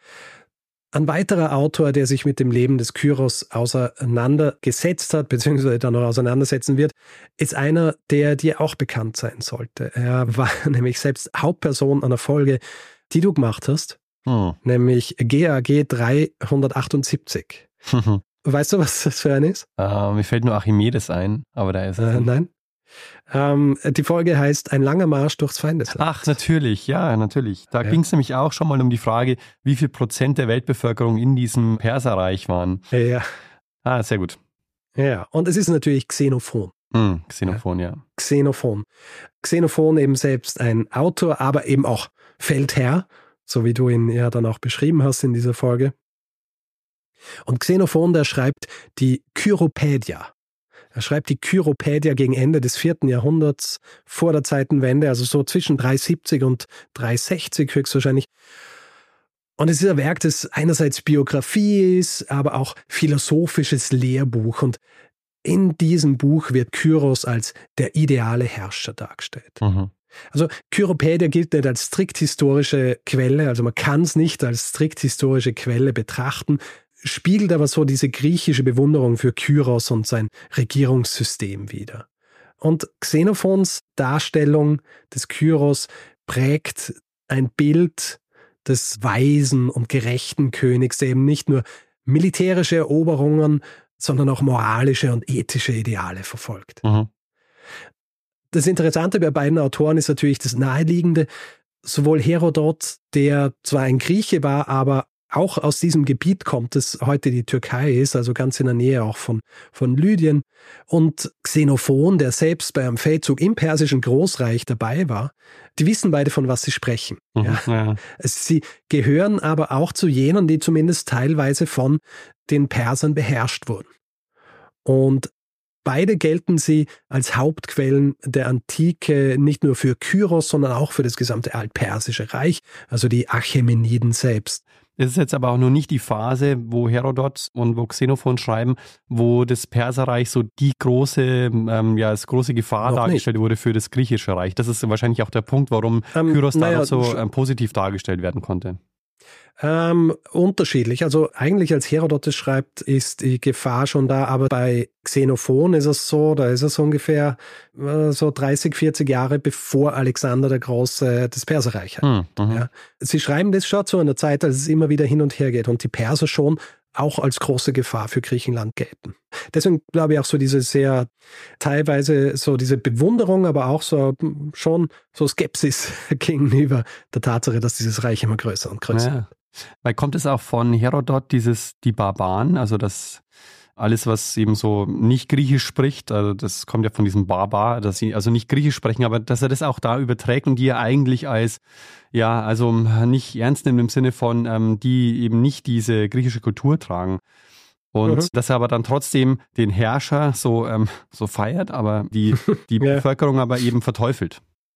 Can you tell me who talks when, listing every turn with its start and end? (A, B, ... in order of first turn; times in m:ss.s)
0:00.9-0:14.0 A
0:14.2-0:14.6 B
0:14.6-0:17.7 A
0:17.9-0:18.2 B
0:18.4-0:19.7 A
0:19.8-0:22.3 B
0:22.0-0:22.5 A
0:23.3-0:26.3 A
0:25.9-0:32.8 B
0:32.9-0:33.3 A
0:33.8-0:34.4 B
0:35.0-0:36.7 A
0:36.9-0:38.0 B
0:38.2-0:38.8 A
0:39.4-0:45.9 A
0:47.4-0:50.3 A
0:50.9-0:58.3 A
0:59.6-1:04.8 A
1:05.4-1:09.6 A
1:09.6-1:09.9 B
1:10.3-1:22.0 A
1:22.6-1:36.8 A
1:36.8-1:37.1 B
1:38.5-1:41.3 A
1:41.8-2:03.9 A
1:57.4-1:58.0 B
2:04.8-2:05.3 A
2:05.8-2:14.6 A
2:15.0-2:28.8 B
2:22.8-2:23.2 A
2:26.1-2:27.2 A
2:29.6-2:59.1 A
2:42.0-2:42.6 B
2:58.9-2:59.3 B
2:59.8-3:03.2 B
3:03.8-3:11.6 B
3:12.1-3:17.2 B
3:17.9-3:24.4 B